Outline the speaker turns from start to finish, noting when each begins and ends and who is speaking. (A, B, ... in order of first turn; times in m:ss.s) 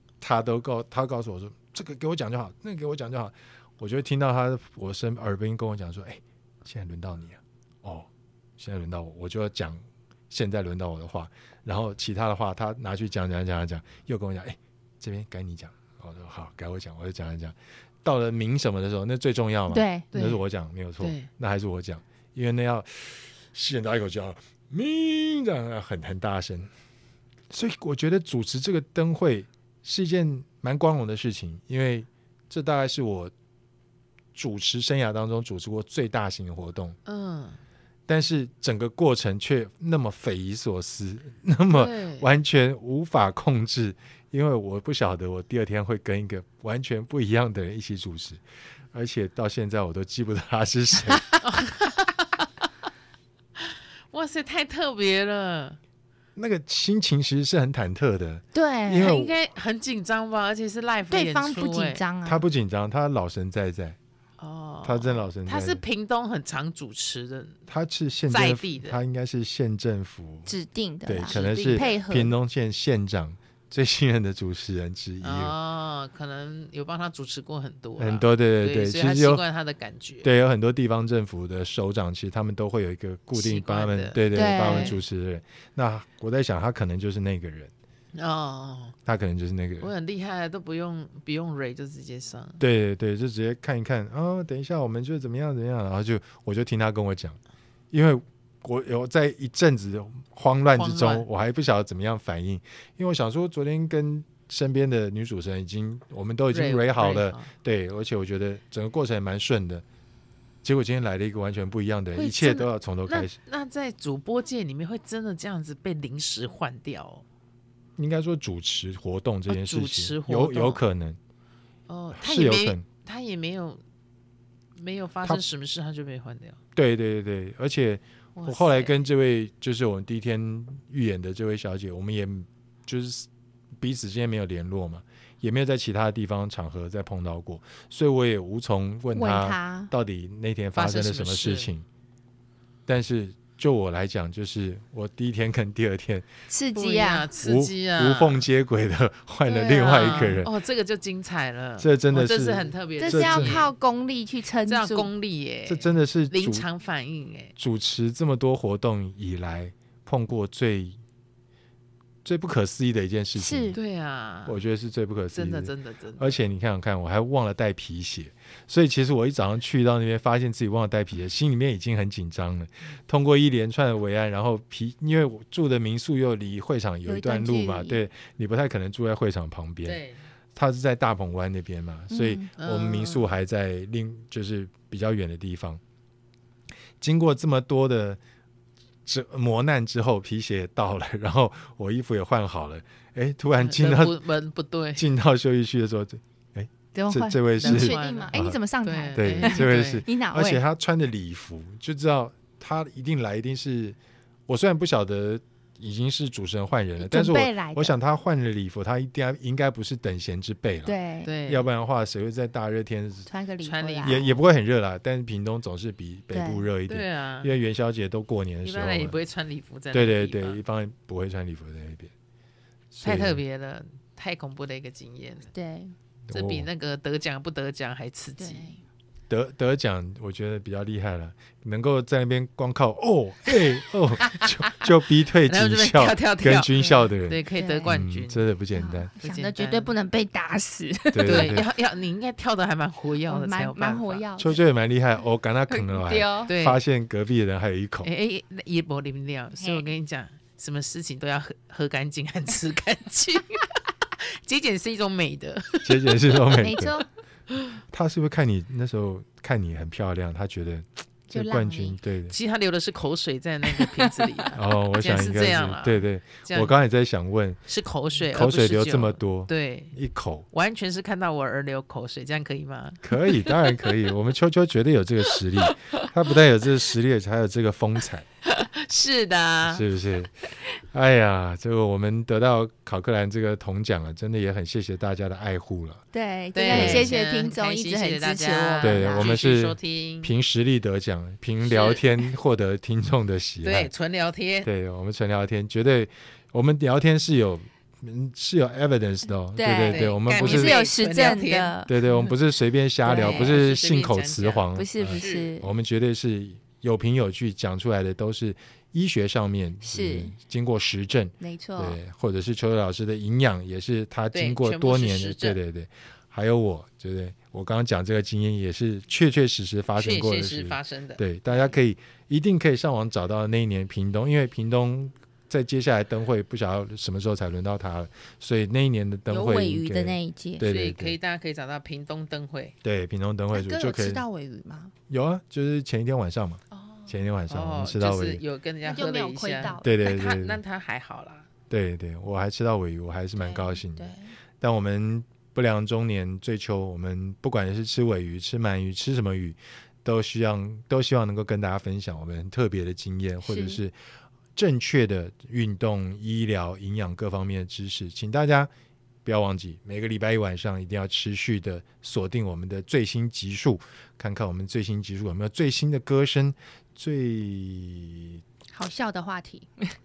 0:00.2-0:26.7 A
0:19.7-0:20.1 B
0:20.1-0:20.4 C
0:21.0-0:21.3 C
0:27.5-0:33.3 A
0:34.3-0:37.0 A
0:37.0-0:37.6 C
0:38.1-0:51.4 A
0:41.7-0:42.3 C
0:51.4-0:52.2 C
0:53.6-0:55.8 C
0:56.4-0:59.4 A
0:58.5-0:59.2 B
0:58.9-1:02.0 C
1:01.1-1:02.4 B
1:02.2-1:04.0 A
1:04.4-1:07.6 C
1:04.8-1:05.8 A
1:07.7-1:10.5 A
1:08.3-1:09.0 C
1:10.5-1:12.3 B
1:11.0-1:15.5 A
1:11.3-1:12.0 C
1:15.2-1:20.3 C
1:18.0-1:19.4 A
1:20.2-1:27.7 A
1:23.3-1:25.0 C
1:24.3-1:25.0 B
1:28.1-1:29.0 C
1:29.0-1:29.9 A
1:29.8-1:32.6 C
1:32.6-1:37.4 A
1:37.9-1:49.8 A
1:40.7-1:41.2 C
1:46.5-1:47.5 C
1:50.6-1:53.3 A
1:52.2-1:57.2 C
1:58.0-2:01.2 A
1:59.5-2:00.8 C
2:01.9-2:03.8 C
2:02.1-2:02.8 A
2:04.8-2:06.6 C
2:06.7-2:13.3 A
2:08.4-2:09.0 C
2:13.8-2:21.8 A
2:19.1-2:19.9 B
2:20.7-2:21.7 C
2:22.9-2:26.2 A
2:26.5-2:27.3 B
2:26.7-2:28.4 C
2:27.4-2:30.5 A
2:29.4-2:33.7 C
2:31.8-2:33.7 A
2:33.0-2:35.1 B
2:34.7-2:37.5 C
2:35.6-2:36.6 A
2:37.6-2:41.0 A
2:42.2-2:43.8 A
2:43.4-2:43.8 B
2:43.7-2:44.6 C
2:44.4-3:00.0 A
2:45.3-2:46.4 C
2:57.0-2:58.0 B
2:59.8-3:00.2 C
3:00.5-3:05.8 A
3:02.1-3:02.5 B
3:02.6-3:03.3 C
3:07.0-3:08.2 A
3:09.0-3:14.2 A
3:13.6-3:15.1 C
3:15.0-3:18.6 A
3:16.9-3:20.6 B
3:17.6-3:20.0 C
3:19.1-3:24.0 A
3:24.5-3:30.9 A
3:27.0-3:27.9 B
3:30.8-3:31.3 B
3:31.2-3:31.7 C
3:31.4-3:33.3 A
3:33.2-3:34.2 B
3:33.6-3:34.4 C
3:34.0-3:39.2 A
3:36.3-3:36.6 B
3:36.9-3:37.5 C
3:38.6-3:40.6 C
3:39.9-3:42.1 A
3:42.9-3:43.4 A
3:43.0-3:45.5 C
3:45.5-3:45.9 B
3:46.3-3:46.7 A
3:46.3-3:48.7 C
3:48.4-3:48.8 B
3:49.3-3:59.1 A
3:54.3-3:54.9 C
3:55.4-3:58.4 C
3:56.8-3:57.9 B
3:58.7-4:01.6 B
3:59.2-3:59.9 C
4:01.1-4:01.7 A
4:01.2-4:04.2 C
4:03.2-4:04.6 B
4:04.4-4:08.1 A
4:05.7-4:06.5 B
4:06.5-4:06.8 C
4:08.0-4:16.7 C
4:09.6-4:09.9 B
4:15.8-4:17.0 A
4:16.5-4:17.0 B
4:17.9-4:22.4 A
4:21.3-4:22.0 B
4:22.3-4:26.7 C
4:23.7-4:24.3 B
4:24.5-4:27.6 A
4:27.7-4:29.9 C
4:28.3-4:30.5 A
4:30.5-4:33.6 C
4:33.0-4:38.2 A
4:35.6-4:36.0 C
4:38.4-4:39.8 C
4:39.6-4:40.3 A
4:40.9-4:46.0 A
4:46.1-4:49.3 B
4:46.5-4:50.3 C
4:46.7-4:47.1 A
4:48.8-4:53.9 A
4:51.6-4:52.1 C
4:53.6-4:54.7 C
4:54.6-5:00.8 A
4:59.5-5:01.9 B
4:59.9-5:02.2 C
5:01.9-5:31.2 A
5:03.0-5:05.5 C
5:03.0-5:03.6 B
5:04.8-5:05.7 B
5:09.8-5:10.3 B
5:11.4-5:12.0 B
5:14.3-5:15.6 C
5:20.0-5:21.7 C
5:29.3-5:30.6 B
5:30.6-5:32.7 C
5:32.8-5:34.2 A
5:33.5-5:34.9 B
5:35.1-5:38.4 A
5:36.7-5:37.1 B
5:37.5-5:41.5 C
5:38.8-5:39.8 B
5:39.8-5:40.6 A
5:41.7-5:54.0 A
5:43.4-5:44.3 B
5:53.4-5:53.8 B
5:54.5-5:58.7 A
5:59.2-6:08.4 A
6:08.7-6:09.9 B